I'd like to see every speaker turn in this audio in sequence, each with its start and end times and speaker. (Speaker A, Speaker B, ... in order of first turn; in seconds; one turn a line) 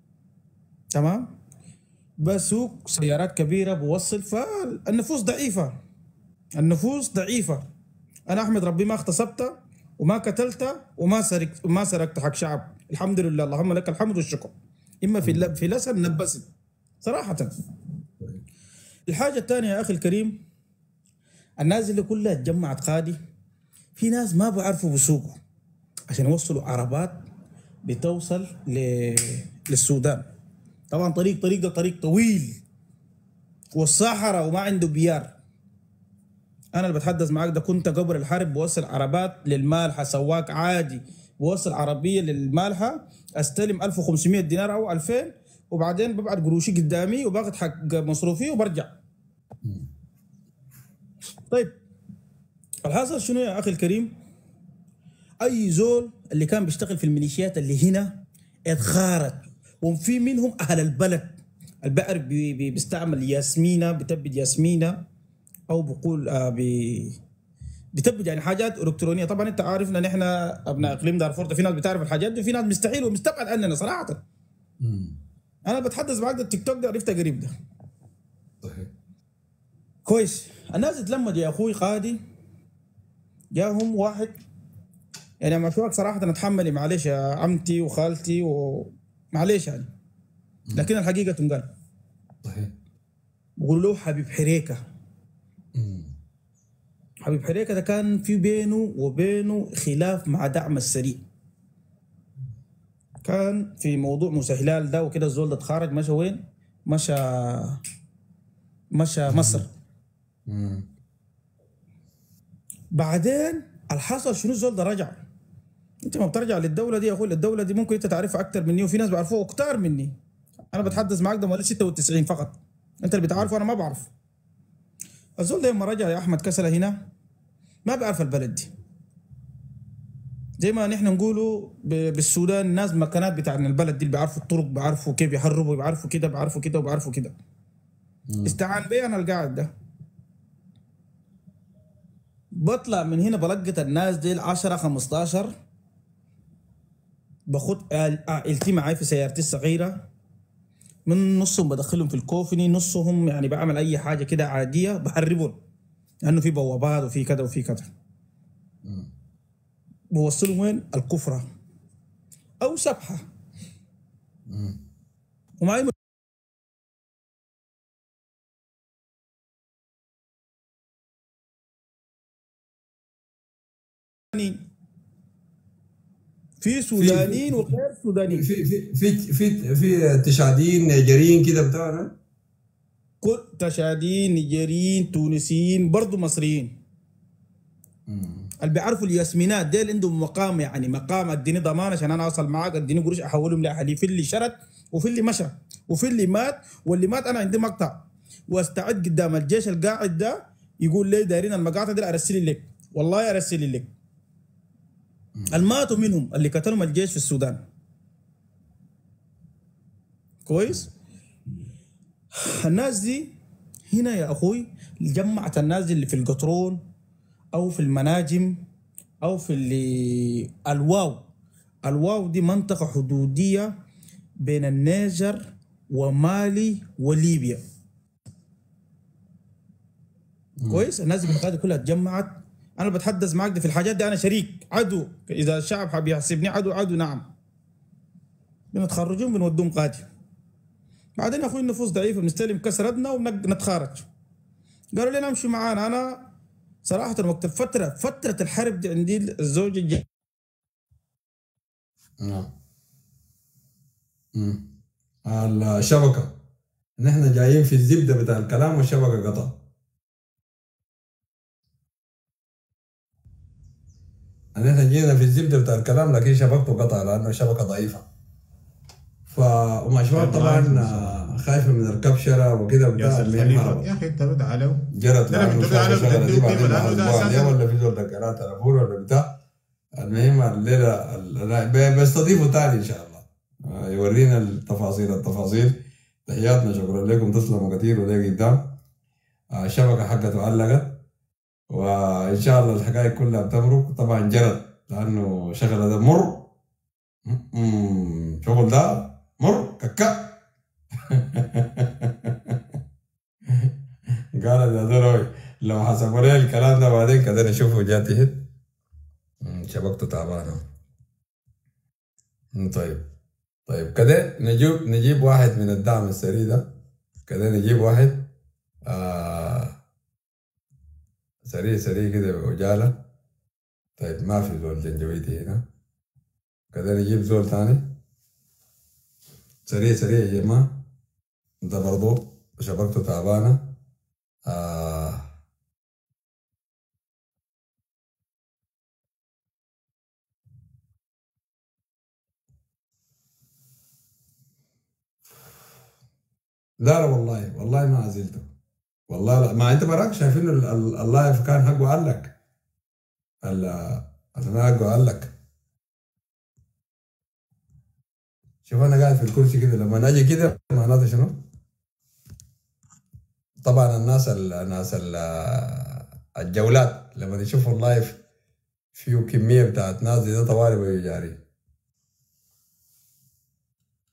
Speaker A: 0.9-1.3
Speaker A: 2.2-5.7
Speaker A: 6.6-7.6
Speaker A: 8.3-16.5
Speaker B: 15.2-15.5
Speaker A: 17.0-17.5
Speaker A: 19.1-20.4
Speaker A: 21.6-23.2
Speaker A: 23.9-25.4
Speaker A: 26.1-27.2
Speaker A: 27.9-30.2
Speaker A: 30.9-32.6
Speaker A: 33.7-35.3
Speaker A: 36.7-48.9
Speaker A: 51.5-51.7
Speaker A: 52.8-54.1
Speaker A: 55.4-65.0
Speaker A: 65.7-67.2
Speaker A: 67.9-74.2
Speaker B: 74.8-75.2
Speaker A: 75.7-77.5
Speaker B: 78.6-78.9
Speaker A: 80.0-82.2
Speaker A: 83.5-84.3
Speaker A: 85.4-89.9
Speaker B: 90.7-90.9
Speaker A: 90.8-91.7
Speaker B: 92.4-92.7
Speaker A: 93.6-94.8
Speaker B: 95.8-96.1
Speaker A: 97.2-101.2
Speaker A: 103.2-107.8
Speaker A: 108.9-109.7
Speaker B: 109.3-109.6
Speaker B: 110.5-110.9
Speaker A: 112.9-115.2
Speaker A: 116.0-120.1
Speaker A: 120.7-124.1
Speaker A: 125.4-127.0
Speaker A: 127.8-128.7
Speaker A: 130.6-137.3
Speaker B: 138.3-138.6
Speaker A: 138.4-139.7
Speaker A: 142.6-145.5
Speaker A: 147.5-150.0
Speaker A: 151.1-155.6
Speaker A: 156.2-157.9
Speaker B: 158.8-159.1
Speaker A: 160.1-161.4
Speaker A: 162.6-163.2
Speaker B: 164.5-164.8
Speaker A: 165.6-165.9
Speaker A: 174.3-174.6
Speaker A: 176.6-178.4
Speaker B: 176.9-177.7
Speaker B: 178.3-182.1
Speaker A: 183.2-186.7
Speaker B: 188.1-188.5
Speaker A: 188.6-203.9
Speaker B: 205.3-205.7
Speaker A: 205.5-207.6
Speaker A: 210.4-210.9
Speaker A: 212.3-213.3
Speaker A: 213.9-216.8
Speaker A: 217.5-218.6
Speaker A: 219.2-221.2
Speaker A: 221.8-223.7
Speaker A: 224.4-227.6
Speaker B: 230.6-230.8
Speaker A: 230.7-237.3
Speaker A: 238.7-240.1
Speaker A: 241.2-244.1
Speaker A: 244.9-246.2
Speaker A: 246.8-250.0
Speaker B: 252.2-252.5
Speaker B: 254.3-254.7
Speaker B: 255.2-256.3
Speaker B: 257.0-259.6
Speaker B: 264.6-268.1
Speaker B: 269.2-273.9
Speaker C: 270.1-271.1
Speaker C: 273.0-277.5
Speaker B: 274.9-279.4
Speaker B: 280.0-288.8
Speaker B: 289.6-291.0
Speaker B: 291.7-296.5
Speaker B: 297.2-300.3
Speaker B: 301.0-302.6
Speaker B: 304.3-308.5
Speaker B: 309.4-310.6
Speaker B: 312.5-313.1
Speaker B: 313.7-316.7
Speaker B: 317.2-318.3
Speaker B: 318.8-319.8
Speaker B: 321.4-323.0
Speaker B: 324.0-325.7
Speaker B: 326.7-327.9
Speaker B: 329.6-330.8
Speaker B: 331.6-333.8
Speaker B: 334.4-335.3
Speaker B: 346.8-348.5
Speaker B: 349.1-352.3
Speaker B: 353.4-355.3
Speaker B: 358.6-361.4
Speaker B: 363.6-368.2
Speaker B: 368.9-371.4